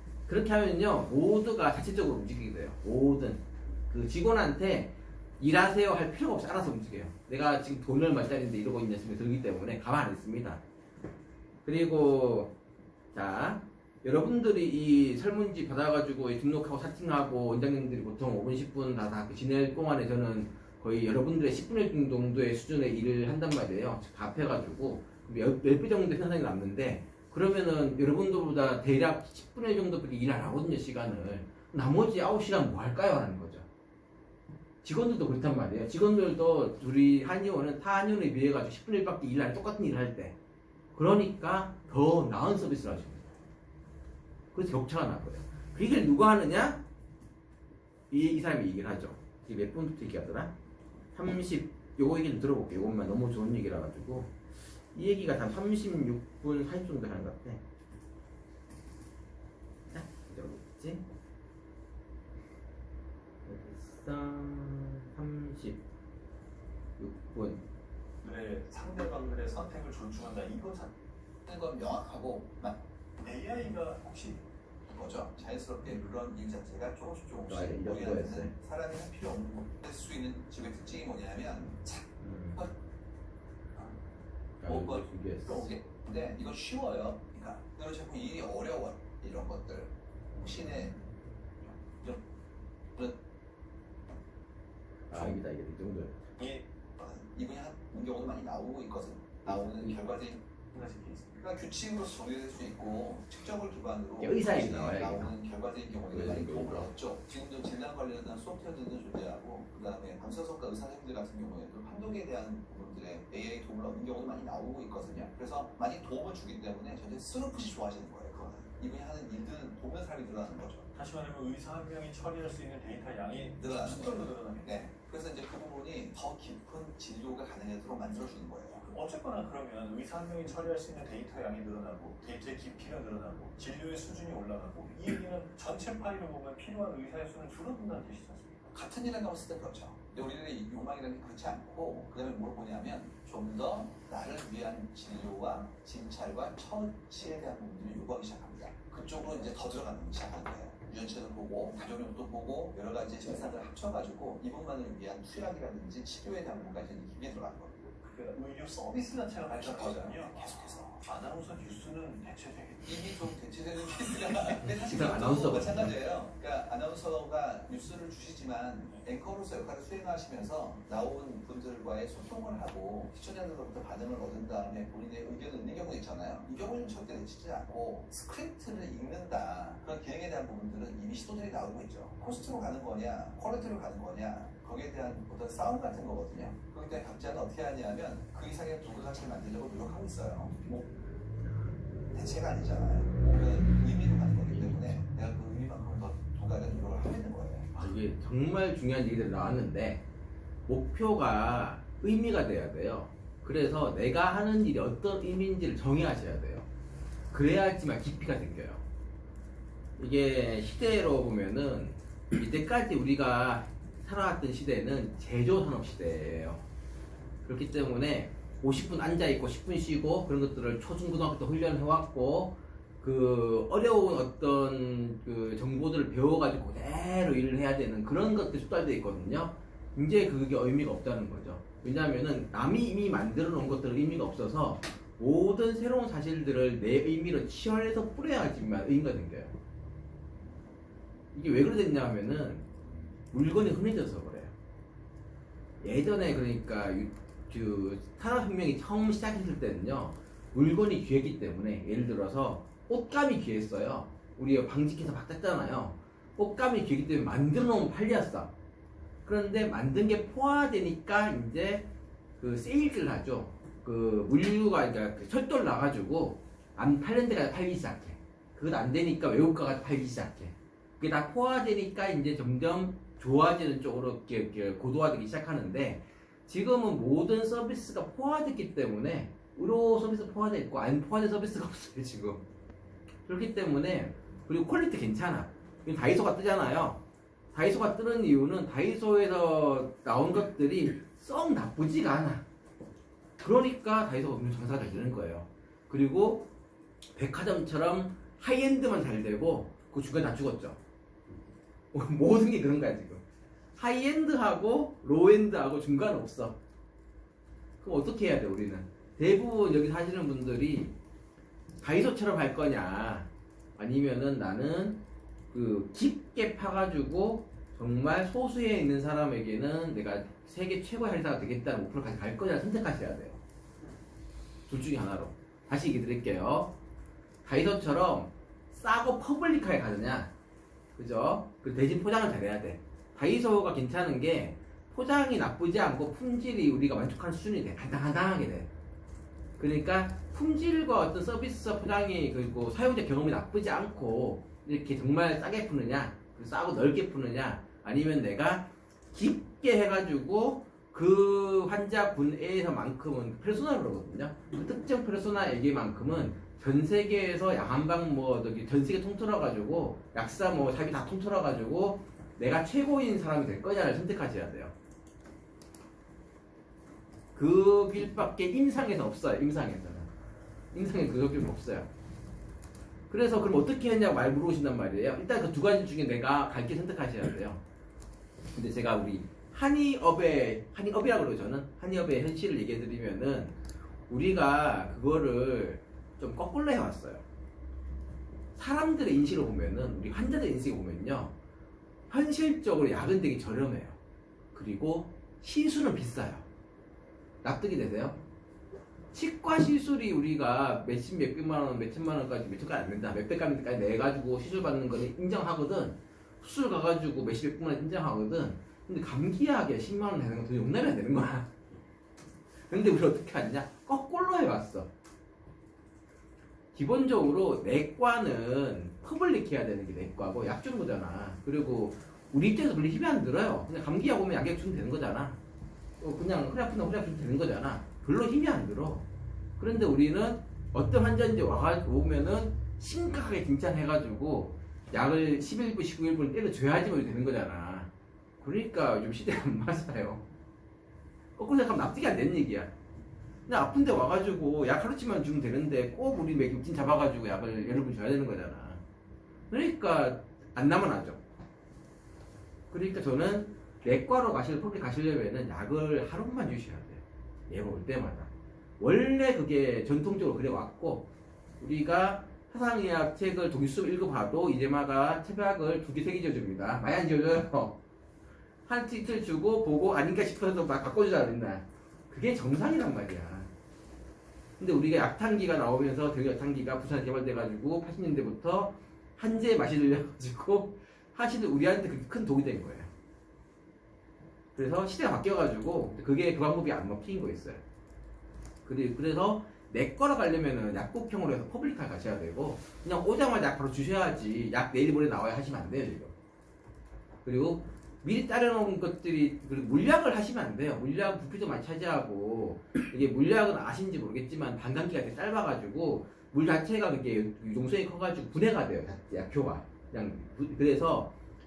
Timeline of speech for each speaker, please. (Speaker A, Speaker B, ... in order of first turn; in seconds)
Speaker A: 0.3-10.6, 11.7-12.5, 13.1-33.7, 34.8-40.4, 41.0-43.3, 44.5-46.8, 48.1-50.5, 51.1-54.3, 54.9-57.6, 59.9-61.0, 63.5-65.8, 67.0-67.6, 77.5-78.5, 82.2-82.6, 84.6-85.7, 95.1-96.2, 104.2-105.3, 106.1-106.9, 164.6-165.9, 197.7-200.0, 200.7-206.7, 207.3-208.8, 210.0-216.6, 217.4-239.5, 241.3-242.7, 243.3-244.5, 245.8-258.5, 259.2-282.4, 283.3-287.0, 287.5-292.4, 293.4-296.5, 297.2-300.8, 301.9-303.2, 303.8-306.6, 307.8-310.9, 311.8-323.4, 324.7-326.7, 327.4-330.3, 331.0-338.7, 339.6-364.7, 367.4-370.1, 370.7-371.9, 373.1-377.6, 378.5-383.6, 384.1-387.2, 388.6-391.3, 392.1-394.0, 394.5-396.4, 397.4-398.2, 399.1-411.6, 412.7-414.9, 416.7-425.4, 426.0-429.1, 429.6-437.9, 438.4-440.2, 441.4-442.7, 443.5-448.8, 449.5-451.2, 452.7-461.1, 461.6-467.8, 468.7-473.5, 474.6-482.9, 484.6-487.6, 488.6-496.1, 497.2-511.1
Speaker B: 68.2-70.9, 73.2-74.4, 100.7-101.5, 121.0-124.8, 128.9-138.7, 158.0-163.2
Speaker C: 71.5-72.8, 74.9-82.7, 84.6-91.0, 91.6-92.2, 97.0-100.4, 101.4-120.9, 123.6-128.8, 138.7-158.0, 159.5-161.0, 162.8-190.8, 192.1-197.7